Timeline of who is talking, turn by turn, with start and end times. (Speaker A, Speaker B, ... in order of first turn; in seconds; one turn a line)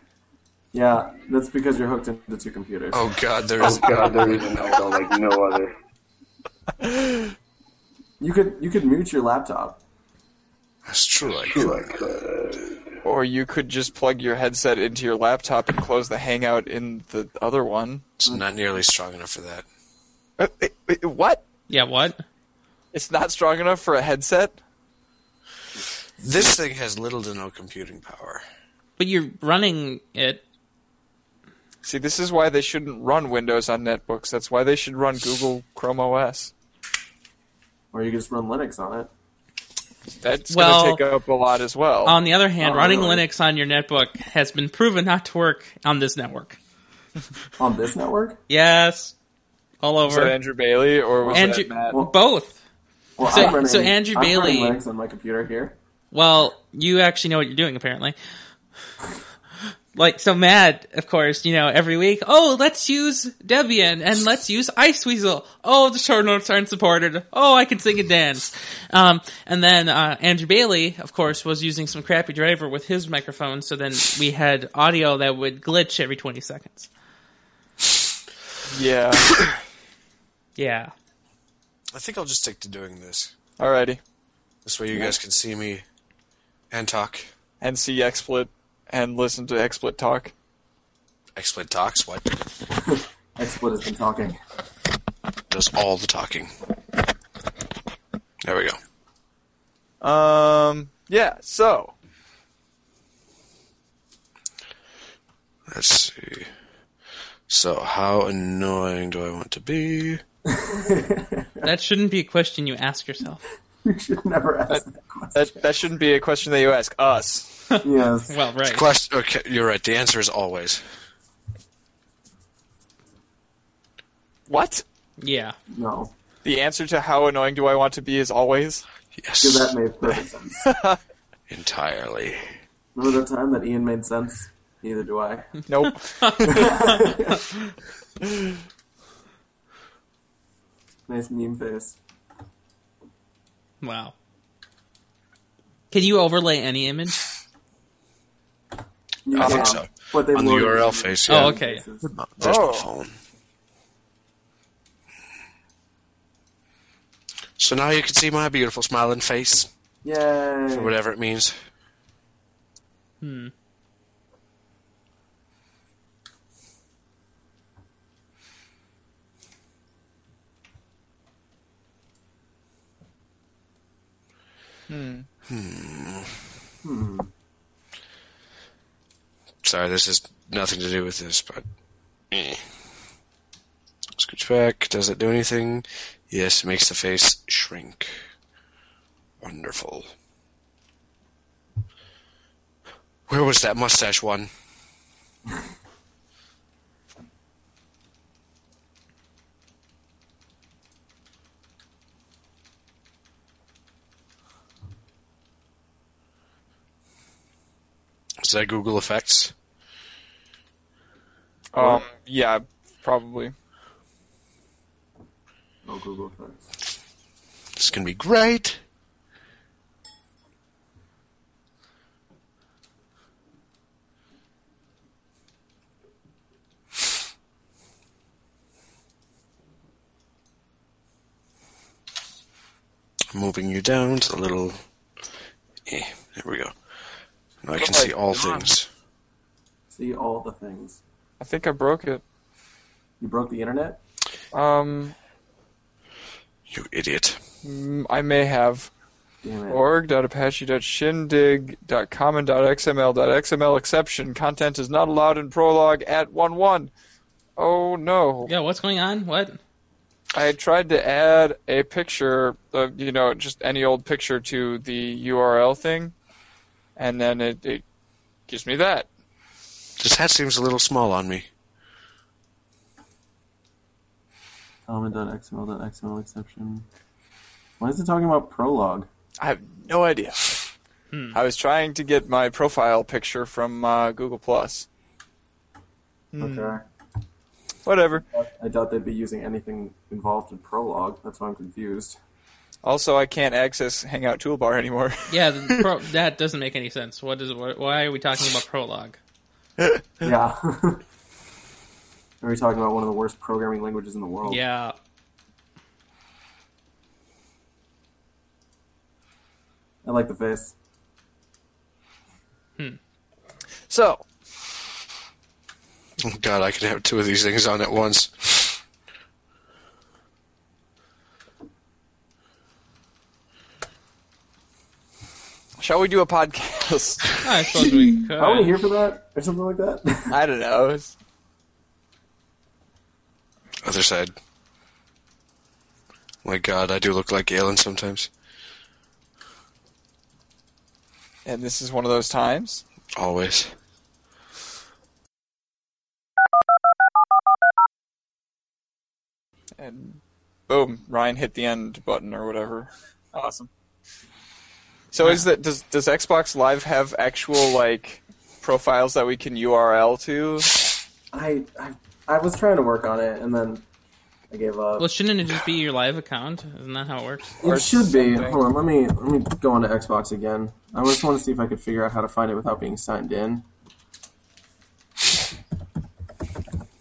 Speaker A: 0.7-3.0
Speaker B: 2.9-4.5
Speaker C: 3.6-5.7
Speaker D: 6.8-7.2
Speaker A: 8.2-9.8
Speaker B: 10.9-11.7
Speaker C: 11.4-12.8
Speaker D: 13.0-18.1
Speaker B: 18.2-19.7
Speaker D: 20.4-21.4
Speaker E: 21.7-22.2
Speaker D: 22.9-24.6
Speaker B: 26.2-28.4
Speaker E: 29.0-30.4
Speaker D: 31.8-36.5
Speaker A: 37.9-39.1
Speaker D: 40.2-42.1
Speaker E: 40.5-41.0
Speaker E: 42.0-46.6
Speaker A: 42.6-43.2
Speaker A: 47.6-48.4
Speaker E: 48.5-49.1
Speaker E: 49.8-50.4
Speaker D: 50.1-52.0
Speaker A: 51.2-52.1
Speaker E: 51.3-52.6
Speaker A: 53.2-55.8
Speaker E: 53.3-54.8
Speaker E: 56.1-58.2
Speaker E: 60.0-76.9
Speaker D: 78.7-79.3
Speaker E: 80.6-80.9
Speaker B: 81.9-83.3
Speaker D: 83.6-84.0
Speaker B: 84.6-85.8
Speaker B: 86.7-87.3
Speaker D: 87.6-90.3
Speaker B: 91.4-92.3
Speaker A: 92.8-94.4
Speaker B: 95.5-96.5
Speaker B: 98.4-98.8
Speaker D: 100.0-101.9
Speaker B: 105.7-106.5
Speaker B: 107.5-110.2
Speaker A: 110.5-111.7
Speaker E: 111.6-113.4
Speaker A: 113.8-115.5
Speaker D: 115.3-117.5
Speaker E: 117.7-118.9
Speaker A: 117.8-118.4
Speaker B: 118.6-120.8
Speaker D: 124.5-124.8
Speaker E: 125.2-125.5
Speaker A: 125.7-126.1
Speaker D: 126.4-128.8
Speaker B: 129.1-129.8
Speaker A: 129.4-130.7
Speaker D: 130.6-131.0
Speaker B: 131.5-132.5
Speaker A: 132.9-135.6
Speaker D: 135.7-136.7
Speaker E: 135.9-137.7
Speaker A: 136.4-137.4
Speaker A: 141.1-142.0
Speaker E: 143.8-144.1
Speaker E: 145.9-147.2
Speaker A: 149.3-152.1
Speaker B: 149.3-153.2
Speaker D: 149.3-149.7
Speaker E: 151.3-151.8
Speaker D: 152.4-152.9
Speaker B: 157.6-159.7
Speaker A: 160.0-160.9
Speaker B: 160.7-161.6
Speaker E: 163.2-163.5
Speaker D: 174.9-175.3
Speaker B: 175.5-176.3
Speaker A: 176.8-177.3
Speaker B: 179.6-181.6
Speaker B: 182.3-182.7
Speaker B: 184.2-188.2
Speaker B: 189.4-190.1
Speaker B: 193.3-194.5
Speaker B: 208.4-209.5
Speaker D: 211.7-213.5
Speaker A: 211.8-212.1
Speaker A: 215.8-216.7
Speaker B: 217.8-218.8
Speaker B: 233.3-234.8
Speaker B: 235.9-236.7
Speaker B: 237.6-238.9
Speaker D: 237.8-238.7
Speaker A: 239.9-241.0
Speaker D: 241.4-242.2
Speaker A: 243.2-244.0
Speaker D: 244.5-245.1
Speaker B: 246.7-247.4
Speaker D: 247.6-248.9
Speaker A: 249.4-249.8
Speaker D: 249.7-256.9
Speaker D: 257.6-258.5
Speaker E: 258.4-259.6
Speaker D: 260.3-266.1
Speaker D: 266.9-267.8
Speaker D: 268.5-269.1
Speaker B: 270.0-271.4
Speaker A: 274.9-276.9
Speaker A: 277.8-279.1
Speaker D: 279.4-280.6
Speaker E: 281.1-281.4
Speaker D: 281.3-284.9
Speaker D: 286.3-286.8
Speaker A: 286.4-286.9
Speaker D: 287.9-288.2
Speaker A: 288.3-292.2
Speaker D: 292.8-295.8
Speaker E: 295.3-299.2
Speaker A: 300.2-301.0
Speaker A: 302.4-304.6
Speaker E: 304.4-304.9
Speaker A: 310.0-310.7
Speaker D: 313.9-314.2
Speaker B: 316.2-318.8
Speaker D: 325.8-327.3
Speaker E: 327.4-328.7
Speaker A: 328.4-330.4
Speaker D: 330.3-331.1
Speaker B: 333.8-334.3
Speaker B: 336.4-338.3
Speaker D: 341.4-342.8
Speaker B: 343.2-343.7
Speaker D: 349.8-353.7
Speaker D: 355.1-360.7
Speaker A: 361.3-363.8
Speaker A: 364.5-365.1
Speaker E: 365.0-367.5
Speaker A: 367.6-373.6
Speaker D: 367.6-368.6